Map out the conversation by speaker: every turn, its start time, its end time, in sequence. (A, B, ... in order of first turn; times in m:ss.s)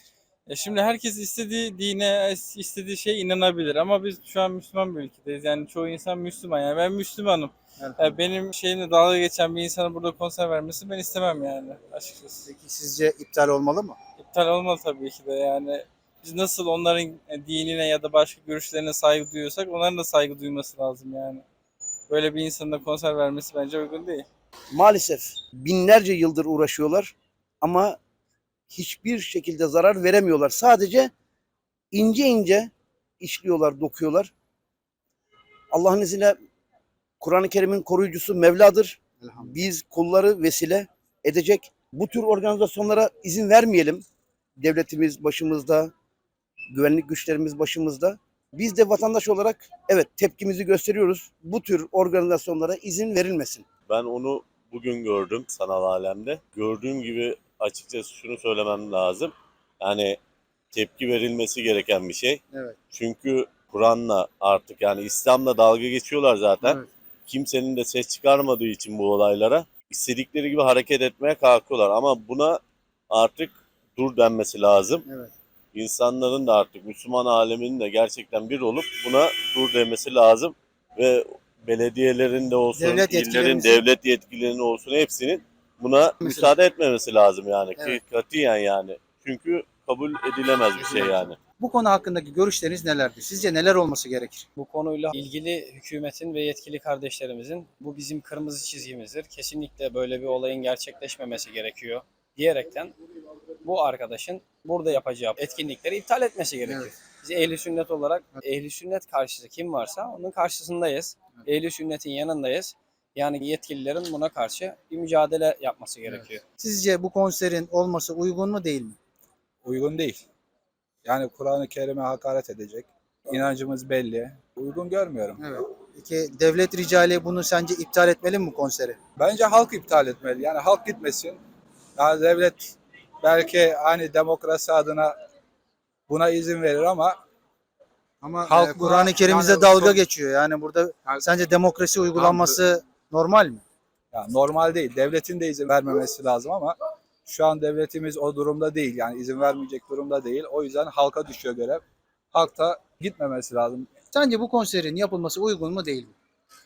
0:00.5-0:12.4 A
0:07.8-0:08.2 B
0:12.4-0:14.0 B
0:14.2-0:21.4 A
0:22.1-0:24.3 A
0:24.7-0:28.0 C
0:28.7-0:31.1 C
0:31.9-0:34.3 C
0:35.7-0:36.4 C
0:37.2-0:44.0 C
0:39.2-0:39.6 B
0:44.6-0:45.9 C
0:46.7-0:53.6 C
0:53.9-1:00.2 D
1:00.7-1:02.4 D
1:02.9-1:15.0 D
1:15.1-1:15.3 B
1:15.7-1:31.4 D
1:22.7-1:23.8 B
1:26.2-1:26.6 B
1:30.8-1:34.5 B
1:34.6-1:42.9 E
1:43.6-1:56.4 E
1:46.6-1:46.9 B
1:56.1-1:59.0 B
1:59.6-2:00.2 F
2:01.0-2:05.4 F
2:05.4-2:09.0 B
2:09.2-2:11.4 F
2:12.0-2:15.1 F
2:16.1-2:17.2 F
2:18.2-2:20.0 F
2:18.3-2:23.6 B
2:22.2-2:22.6 F
2:24.1-2:33.9 F
2:34.1-2:36.1 B